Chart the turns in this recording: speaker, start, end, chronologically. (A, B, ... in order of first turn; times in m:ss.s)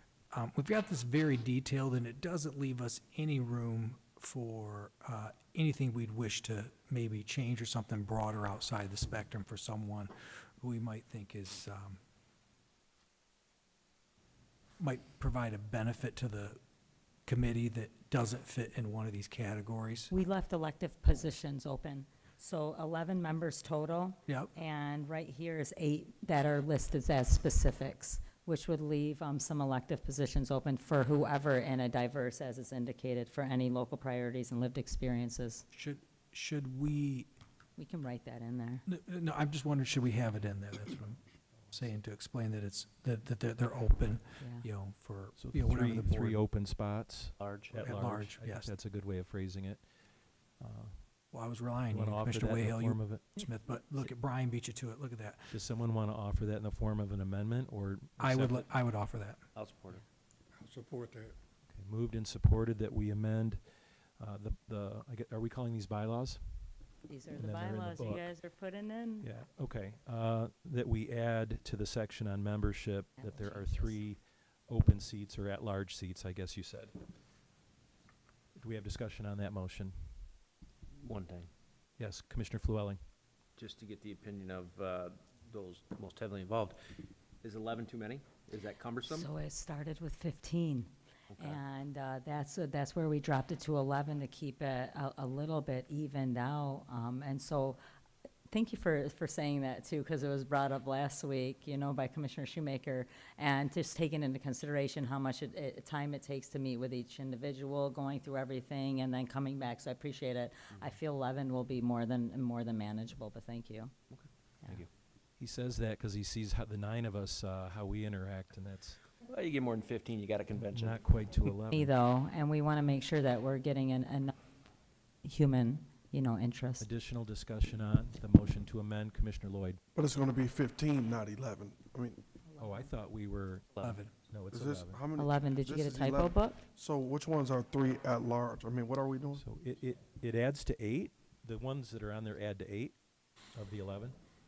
0:00.3-0:12.0 A
0:14.8-0:16.6 A
0:17.2-0:20.1 A
0:20.1-0:35.6 B
0:24.3-0:24.5 A
0:35.7-0:37.3 A
0:37.8-0:38.8 B
0:38.8-0:41.2 A
0:41.7-0:46.4 A
0:44.4-0:44.7 B
0:45.4-0:49.8 C
0:47.4-0:47.8 D
0:47.8-0:48.7 A
0:50.6-0:51.2 C
0:51.3-0:55.6 A
0:51.9-0:53.3 C
0:55.5-0:58.7 C
0:58.2-0:59.4 A
0:59.5-1:00.0 D
1:00.6-1:01.1 E
1:01.7-1:03.6 C
1:04.2-1:06.8 C
1:07.1-1:09.3 B
1:07.4-1:08.3 C
1:09.2-1:16.9 C
1:13.2-1:14.0 B
1:18.6-1:20.3 C
1:21.0-1:21.5 D
1:22.0-1:23.0 C
1:23.6-1:26.8 D
1:27.4-1:29.3 D
1:29.1-1:37.8 B
1:31.3-1:31.6 D
1:38.5-1:53.9 B
1:54.1-1:54.9 D
1:55.4-1:59.0 C
1:59.2-2:01.5 D
2:00.6-2:01.9 C
2:01.7-2:04.3 B
2:05.2-2:06.9 B
2:06.8-2:09.8 C
2:09.9-2:12.2 E
2:12.4-2:12.9 B
2:12.6-2:15.0 C
2:13.8-2:14.1 A
2:14.5-2:19.4 E
2:15.1-2:16.6 B
2:19.4-2:23.0 C
2:23.5-2:24.1 C